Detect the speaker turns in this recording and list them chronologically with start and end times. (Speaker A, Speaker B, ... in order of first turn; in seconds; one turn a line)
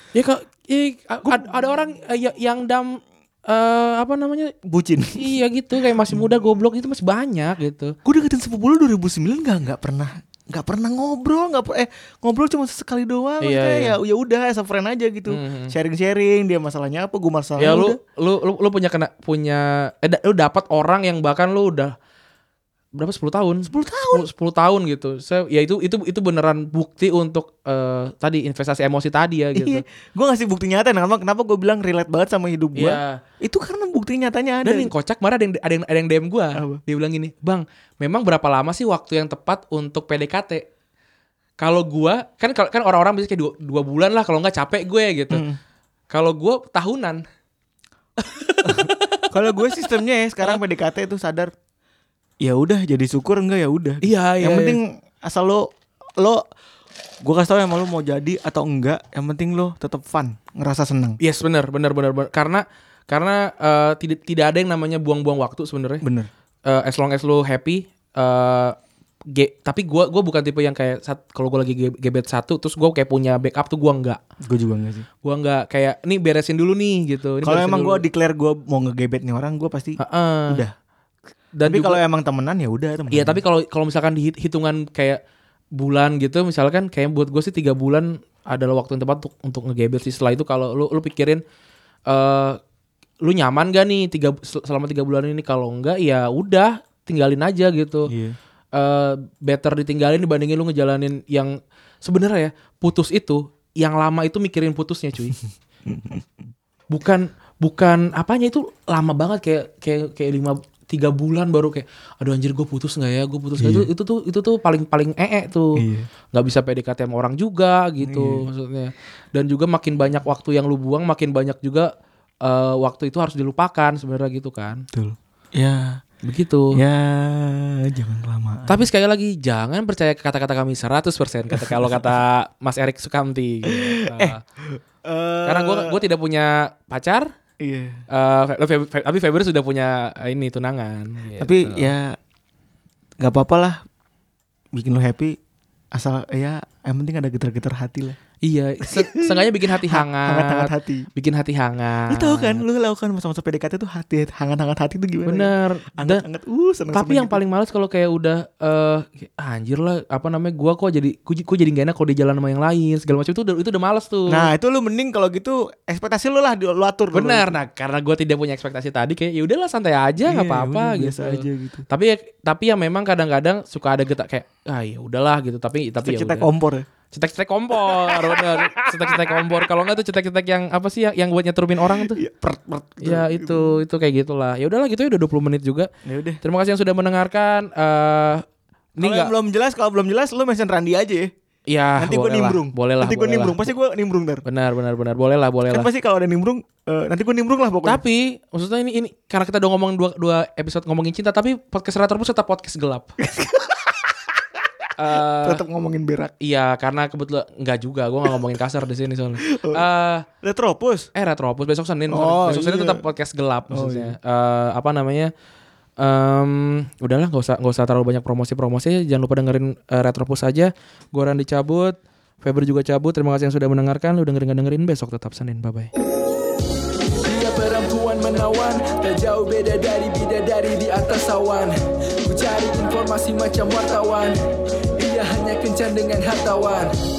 Speaker A: 0.1-4.5
Speaker B: 4.6-5.3
Speaker A: 5.2-7.9
Speaker B: 8.0-18.0
Speaker A: 13.4-13.9
Speaker A: 15.3-15.7
Speaker A: 17.6-21.9
Speaker A: 22.9-29.8
Speaker B: 23.6-24.2
Speaker B: 29.6-34.9
Speaker A: 32.7-33.2
Speaker A: 34.6-40.6
Speaker B: 36.5-36.8
Speaker A: 41.6-45.4
Speaker B: 45.3-45.6
Speaker A: 46.1-47.2
Speaker A: 48.2-49.2
Speaker B: 48.6-51.5
Speaker B: 52.4-56.4
Speaker A: 54.0-54.8
Speaker B: 57.2-61.2
Speaker A: 61.2-66.0
Speaker B: 66.0-66.3
Speaker A: 66.7-68.8
Speaker A: 69.3-74.2
Speaker B: 74.4-75.0
Speaker A: 75.2-78.0
Speaker B: 77.4-80.7
Speaker A: 80.0-80.6
Speaker A: 81.5-82.0
Speaker B: 81.6-83.4
Speaker A: 83.1-85.2
Speaker A: 85.8-91.4
Speaker A: 92.1-92.6
Speaker A: 93.2-98.1
Speaker B: 98.1-98.3
Speaker A: 98.7-105.4
Speaker B: 105.8-106.3
Speaker A: 106.9-121.9
Speaker B: 113.6-113.9
Speaker B: 115.8-116.1
Speaker B: 118.0-118.4
Speaker A: 122.4-124.8
Speaker B: 124.9-126.0
Speaker A: 126.2-126.8
Speaker B: 126.7-128.8
Speaker A: 128.7-134.4
Speaker B: 131.5-132.0
Speaker B: 133.7-136.0
Speaker A: 135.4-137.3
Speaker B: 137.6-138.0
Speaker A: 138.1-141.9
Speaker B: 141.4-142.2
Speaker B: 143.2-143.8
Speaker B: 144.7-145.3
Speaker B: 145.9-148.2
Speaker A: 148.4-152.6
Speaker B: 148.9-151.1
Speaker B: 152.1-157.4
Speaker A: 155.2-156.2
Speaker A: 156.9-164.5
Speaker B: 164.3-167.6
Speaker A: 167.1-176.5
Speaker B: 170.2-171.8
Speaker B: 176.0-176.9
Speaker A: 177.1-182.2
Speaker B: 177.8-179.2
Speaker B: 181.8-183.7
Speaker A: 183.0-185.9
Speaker B: 186.0-186.4
Speaker A: 186.4-188.4
Speaker A: 189.0-189.3
Speaker B: 189.0-191.3
Speaker A: 191.7-193.7
Speaker B: 192.0-194.4
Speaker A: 194.4-195.9
Speaker B: 195.7-198.0
Speaker A: 197.8-203.1
Speaker B: 203.2-204.1
Speaker A: 205.0-205.6
Speaker B: 205.4-206.3
Speaker A: 206.4-210.2
Speaker B: 209.5-209.8
Speaker B: 210.4-211.1
Speaker A: 211.1-215.3
Speaker B: 212.1-213.0
Speaker B: 213.7-214.2
Speaker A: 216.0-225.9
Speaker C: 227.2-234.4
Speaker C: 235.0-236.9